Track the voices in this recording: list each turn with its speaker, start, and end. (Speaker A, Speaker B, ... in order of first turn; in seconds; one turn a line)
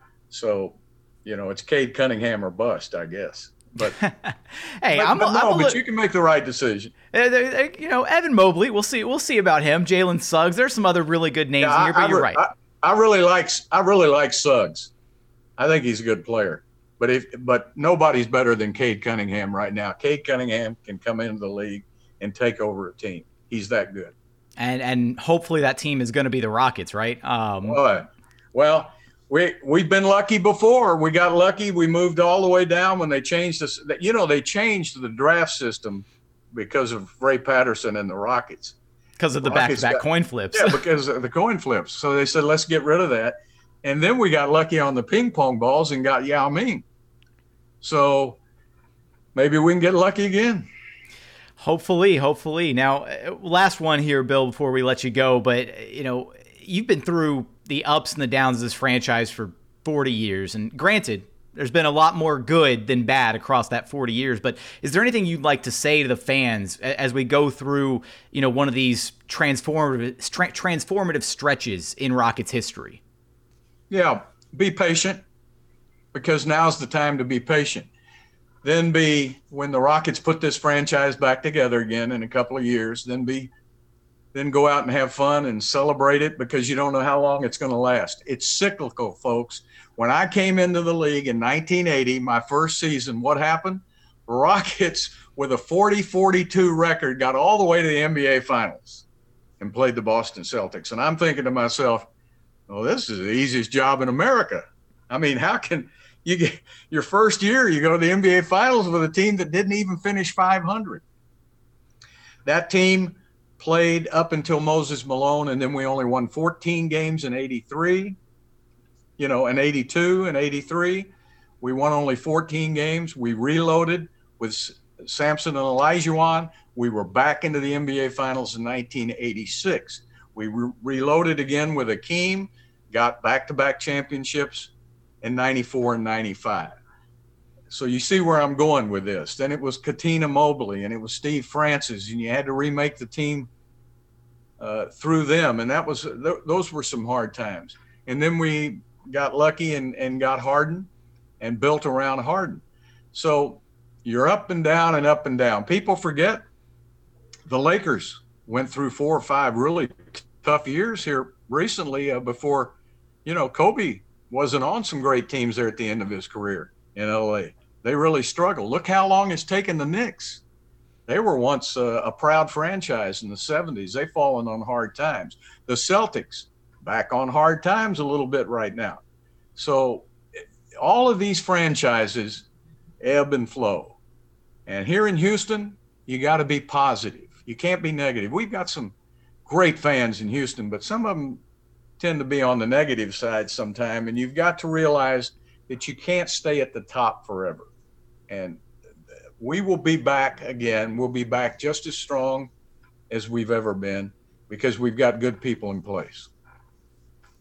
Speaker A: 0.3-4.0
Speaker B: 4.0-5.8
Speaker A: 4.9-6.9
Speaker B: 7.1-12.4
Speaker A: 11.6-14.9
Speaker A: 15.6-24.1
Speaker B: 24.6-27.8
Speaker A: 27.6-38.8
Speaker B: 39.2-40.8
Speaker A: 39.4-46.9
Speaker A: 47.8-48.4
Speaker A: 49.4-50.7
Speaker B: 51.6-73.0
Speaker A: 73.9-75.2
Speaker A: 76.1-77.9
Speaker A: 78.6-83.5
Speaker A: 84.3-99.0
Speaker A: 99.6-102.1
Speaker A: 102.7-111.0
Speaker A: 112.5-118.2
Speaker A: 119.2-121.1
Speaker A: 121.6-136.8
Speaker A: 137.7-143.5
Speaker A: 144.6-152.6
Speaker A: 153.1-156.5
Speaker A: 157.5-170.4
Speaker A: 171.1-179.0
Speaker A: 179.6-180.1
Speaker A: 180.8-182.5
Speaker A: 183.0-184.0
Speaker A: 184.7-191.4
Speaker A: 192.0-197.7
Speaker A: 198.3-198.6
Speaker A: 199.4-202.5
Speaker A: 203.1-206.3